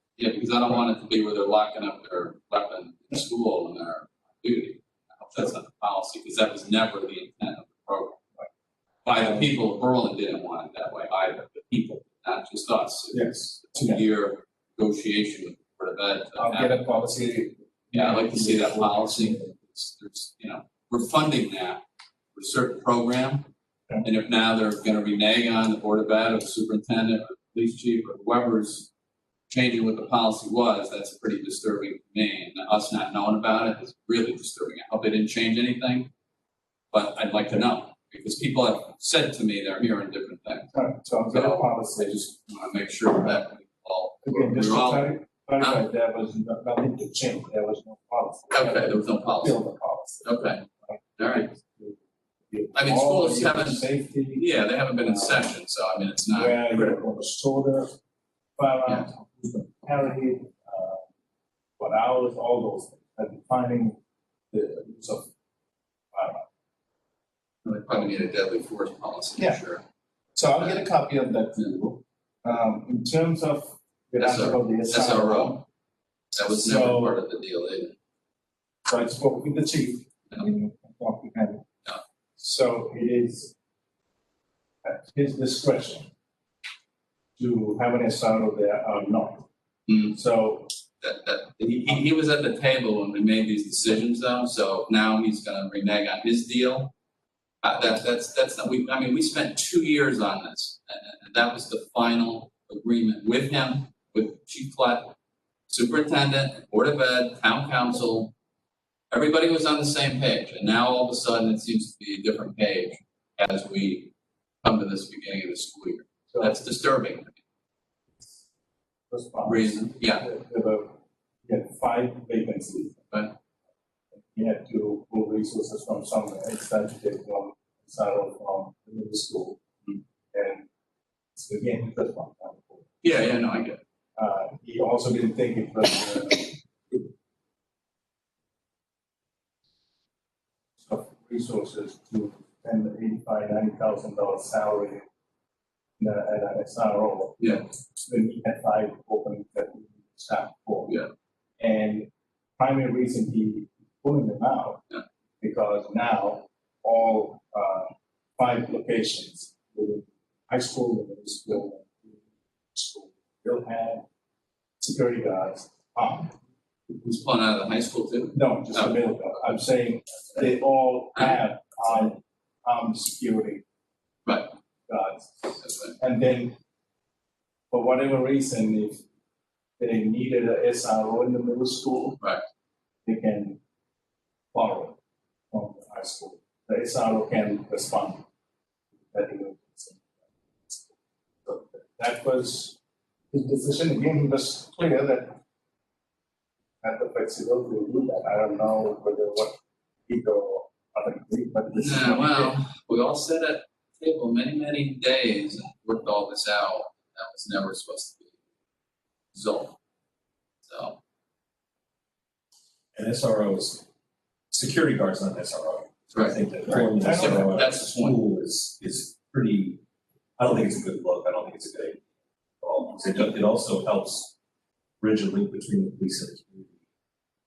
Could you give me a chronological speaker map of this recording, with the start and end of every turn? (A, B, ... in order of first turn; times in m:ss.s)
0:00.2-0:08.2 A
0:09.0-0:17.2 A
0:09.2-0:09.5 B
0:13.1-0:14.0 B
0:16.4-0:19.6 B
0:17.9-0:21.8 A
0:22.4-0:23.5 A
0:24.0-0:28.9 A
0:29.5-0:36.1 A
0:36.9-0:40.7 A
0:40.7-0:42.3 B
0:41.3-0:45.8 A
0:44.2-0:50.3 B
0:48.5-0:49.6 A
0:50.2-0:50.7 A
0:50.9-0:55.5 B
0:51.2-0:51.5 A
0:52.7-0:57.0 A
0:56.3-0:57.9 B
0:58.6-1:01.1 B
1:01.8-1:04.0 B
1:04.5-1:05.3 B
1:06.1-1:06.5 B
1:07.6-1:09.8 A
1:09.4-1:09.6 B
1:10.4-1:15.6 B
1:10.6-1:10.9 A
1:14.2-1:15.6 A
1:16.3-1:18.0 A
1:16.5-1:17.2 B
1:18.9-1:21.6 B
1:22.4-1:23.5 B
1:24.8-1:26.1 B
1:27.4-1:29.5 B
1:30.0-1:30.7 B
1:31.0-1:36.9 A
1:37.6-1:45.1 A
1:45.7-1:48.3 A
1:49.1-1:54.1 A
1:54.6-1:57.4 A
1:56.3-1:56.6 B
1:59.1-2:03.1 B
1:59.5-2:00.2 A
2:04.2-2:09.6 B
2:10.3-2:10.7 B
2:11.4-2:12.9 B
2:13.0-2:13.8 A
2:14.2-2:17.1 B
2:20.8-2:25.0 B
2:26.0-2:31.0 B
2:31.6-2:34.8 B
2:35.4-2:42.2 B
2:42.7-2:44.0 B
2:44.8-2:46.3 B
2:46.9-2:49.4 A
2:48.3-2:53.6 B
2:51.2-2:52.1 A
2:54.9-2:56.6 B
2:55.6-2:56.0 A
2:57.7-2:59.0 B
2:59.8-3:02.2 B
3:03.0-3:03.6 B
3:04.5-3:05.0 B
3:05.5-3:08.2 B
3:09.1-3:10.1 B
3:11.4-3:12.8 B
3:13.3-3:15.4 B
3:16.8-3:19.5 B
3:20.1-3:22.6 B
3:21.7-3:28.3 A
3:29.3-3:29.8 A
3:30.7-3:31.0 A
3:32.9-3:33.9 C
3:34.5-3:39.8 C
3:36.1-3:38.2 A
3:37.0-3:37.5 B
3:40.4-3:42.0 C
3:42.6-3:44.3 C
3:45.0-3:46.7 C